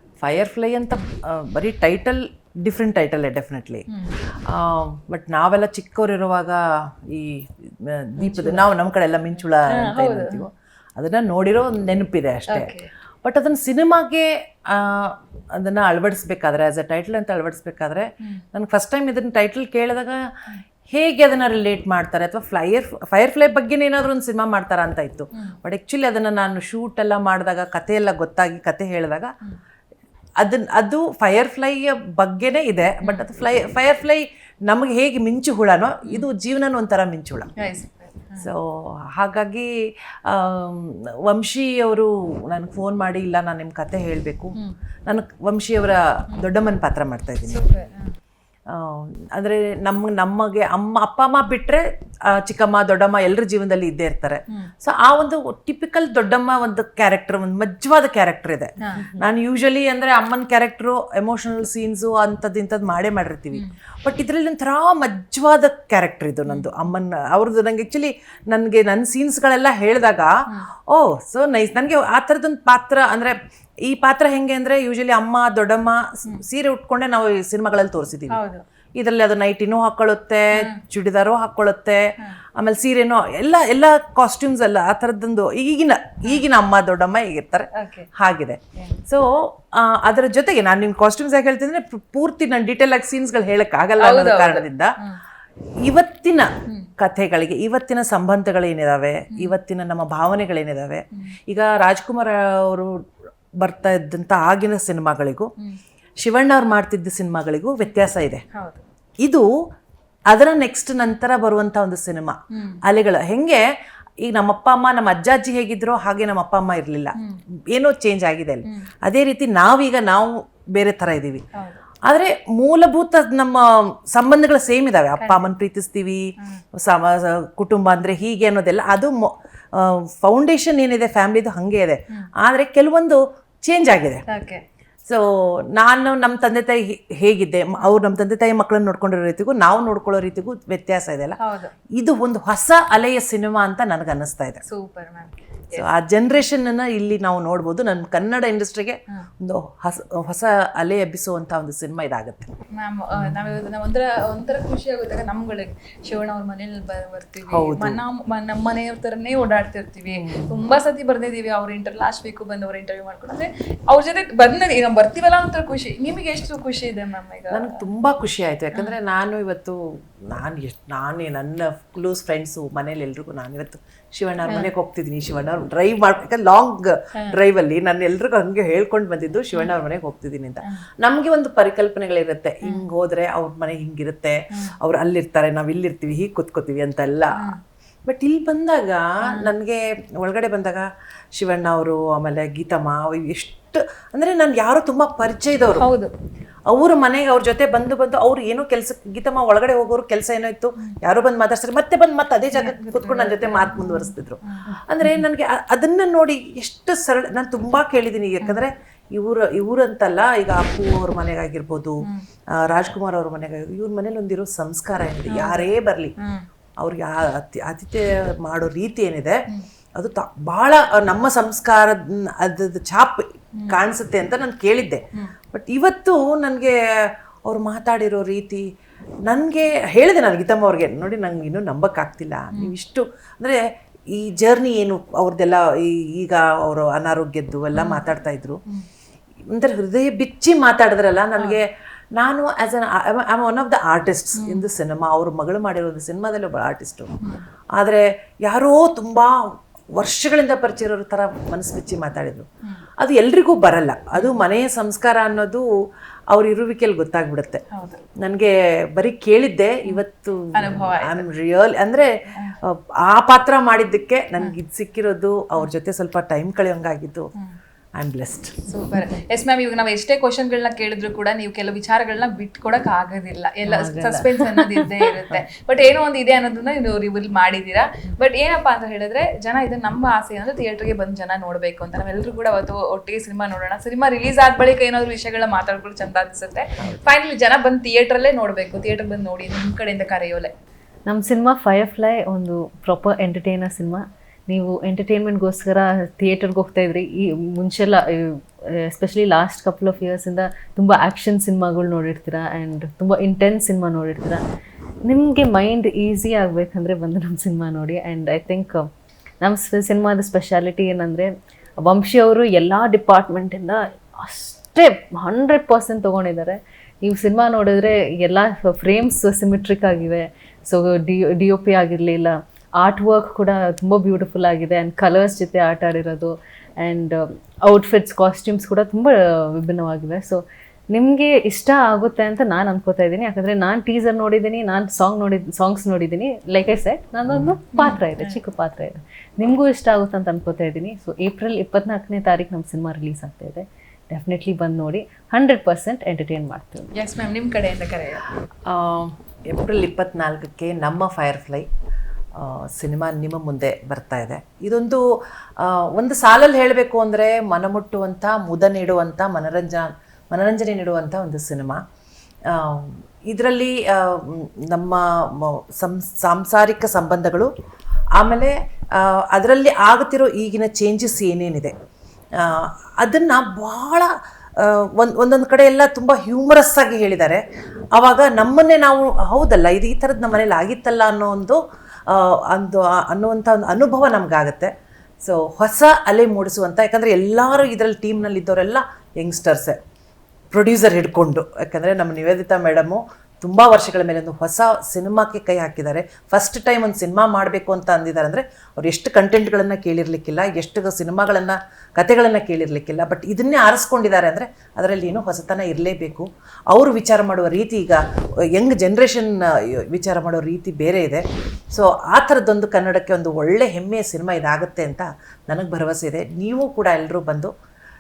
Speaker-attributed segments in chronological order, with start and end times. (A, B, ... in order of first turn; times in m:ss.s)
0:00.2-0:03.9 A
0:03.9-0:04.2 B
0:04.5-0:20.2 A
0:08.2-0:08.7 B
0:09.7-0:10.4 B
0:12.5-0:12.9 B
0:20.9-0:29.3 A
0:30.4-0:37.5 A
0:37.6-0:38.5 B
0:38.4-0:39.7 A
0:40.3-0:44.5 A
0:45.1-0:47.6 A
0:47.5-0:48.1 B
0:48.7-1:10.3 A
0:58.8-0:59.1 B
1:06.5-1:06.7 B
1:10.9-1:13.4 A
1:13.9-1:18.4 A
1:18.3-1:18.6 B
1:19.0-1:22.0 A
1:22.6-1:34.9 A
1:27.8-1:28.1 B
1:34.0-1:35.2 B
1:35.8-1:42.9 A
1:43.6-1:45.5 A
1:46.2-1:48.4 A
1:48.5-1:48.8 B
1:50.3-1:53.6 A
1:52.5-1:52.8 B
1:54.2-1:57.1 A
1:57.7-2:01.4 A
2:01.6-2:01.8 B
2:02.1-2:14.2 A
2:05.2-2:05.5 B
2:14.3-2:14.6 B
2:15.8-2:21.4 A
2:21.4-2:21.7 B
2:22.0-2:24.6 A
2:24.6-2:25.9 B
2:25.8-2:32.5 A
2:32.8-2:47.8 B
2:33.2-2:33.5 A
2:37.5-2:38.0 A
2:40.1-2:40.6 A
2:47.5-3:07.5 A
2:54.5-2:54.7 B
3:08.1-3:10.8 A
3:11.4-3:15.8 A
3:15.8-3:16.1 B
3:16.7-3:32.0 A
3:22.5-3:24.7 B
3:32.6-3:36.1 A
3:35.3-3:35.7 B
3:36.8-3:39.4 A
3:40.0-3:48.6 A
3:43.6-3:43.8 B
3:49.3-3:53.6 A
3:54.1-3:58.6 A
3:57.7-3:58.1 B
3:59.5-4:07.2 A
4:01.4-4:01.6 B
4:04.4-4:04.7 B
4:07.8-4:09.3 A
4:10.0-4:12.5 A
4:13.0-4:15.7 A
4:14.2-4:14.4 B
4:16.3-4:17.6 A
4:17.7-4:18.0 B
4:18.2-4:22.1 A
4:20.6-4:21.2 B
4:22.6-4:27.3 A
4:28.0-4:28.6 A
4:28.7-4:50.5 B
4:33.7-4:35.1 C
4:51.1-5:04.4 C
5:05.0-5:08.9 C
5:09.4-5:11.3 C
5:11.8-5:46.9 C
5:37.3-5:37.6 A
5:37.8-5:38.4 B
5:47.0-5:48.3 B
5:48.7-5:51.7 A
5:52.4-5:55.0 A
5:55.6-6:01.8 A
6:02.5-6:07.5 A
6:08.2-6:11.7 A
6:12.4-6:14.1 A
6:14.6-6:17.4 A
6:18.0-6:24.7 A
6:25.2-6:29.8 A
6:30.5-6:48.0 A
6:48.6-6:57.5 A